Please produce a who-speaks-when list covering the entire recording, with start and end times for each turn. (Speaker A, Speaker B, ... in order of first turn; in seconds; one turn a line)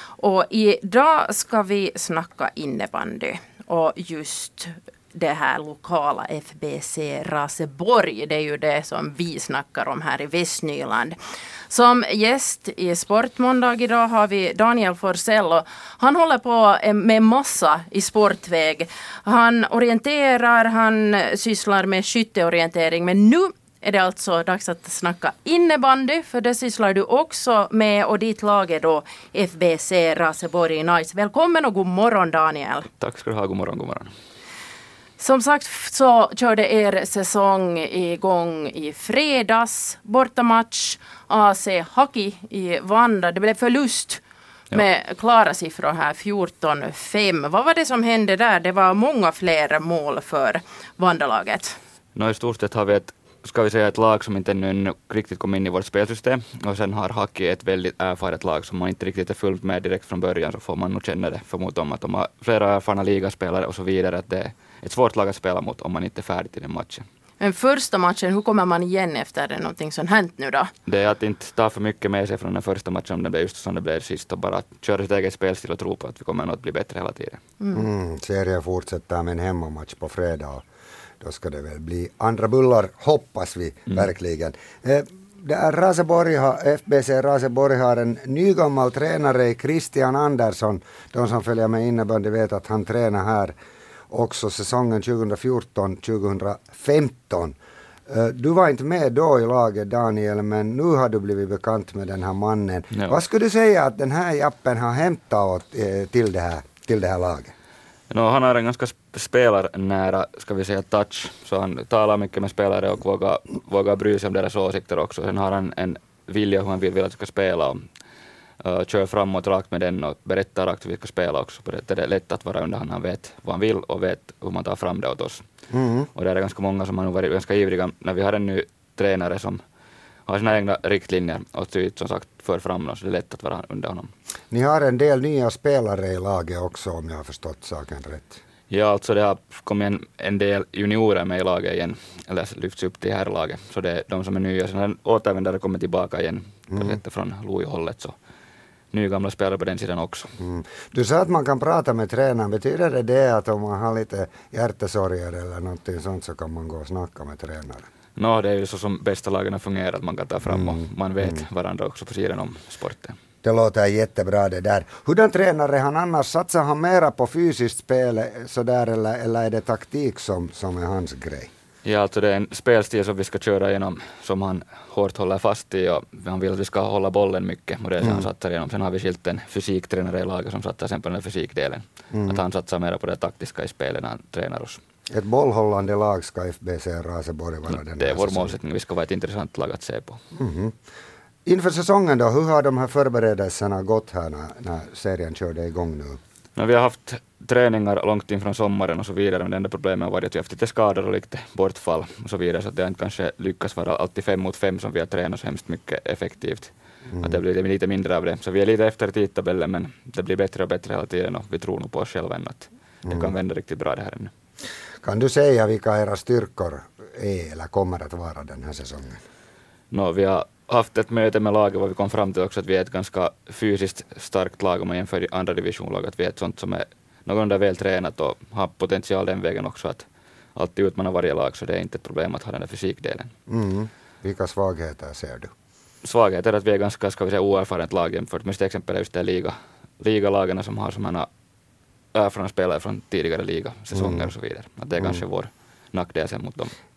Speaker A: 0.2-11.2
Speaker A: 11.7-32.9
Speaker B: 33.0-34.1
Speaker A: 35.2-51.8
Speaker B: 52.1-67.0
Speaker A: 67.4-70.7
Speaker B: 70.9-77.4
Speaker A: 77.6-77.9
Speaker C: 77.7-80.6
Speaker C: 81.2-93.5
Speaker C: 94.1-97.5
Speaker C: 98.1-107.5
Speaker B: 108.1-117.8
Speaker B: 118.6-125.4
Speaker C: 125.7-126.1
Speaker B: 126.1-129.6
Speaker B: 130.3-134.1
Speaker C: 134.5-138.4
Speaker B: 138.7-148.1
Speaker C: 146.7-147.0
Speaker B: 148.9-150.3
Speaker C: 150.4-157.9
Speaker B: 158.2-163.2
Speaker C: 160.4-161.4
Speaker C: 163.4-171.5
Speaker B: 171.8-184.8
Speaker C: 178.0-178.3
Speaker C: 182.1-182.4
Speaker C: 185.1-188.5
Speaker B: 187.7-190.2
Speaker C: 190.3-190.8
Speaker C: 191.4-196.2
Speaker B: 196.6-214.3
Speaker C: 213.0-213.3
Speaker C: 215.0-219.2
Speaker B: 219.9-233.3
Speaker C: 233.5-235.5
Speaker B: 236.0-241.3
Speaker B: 242.1-246.7
Speaker C: 243.9-244.3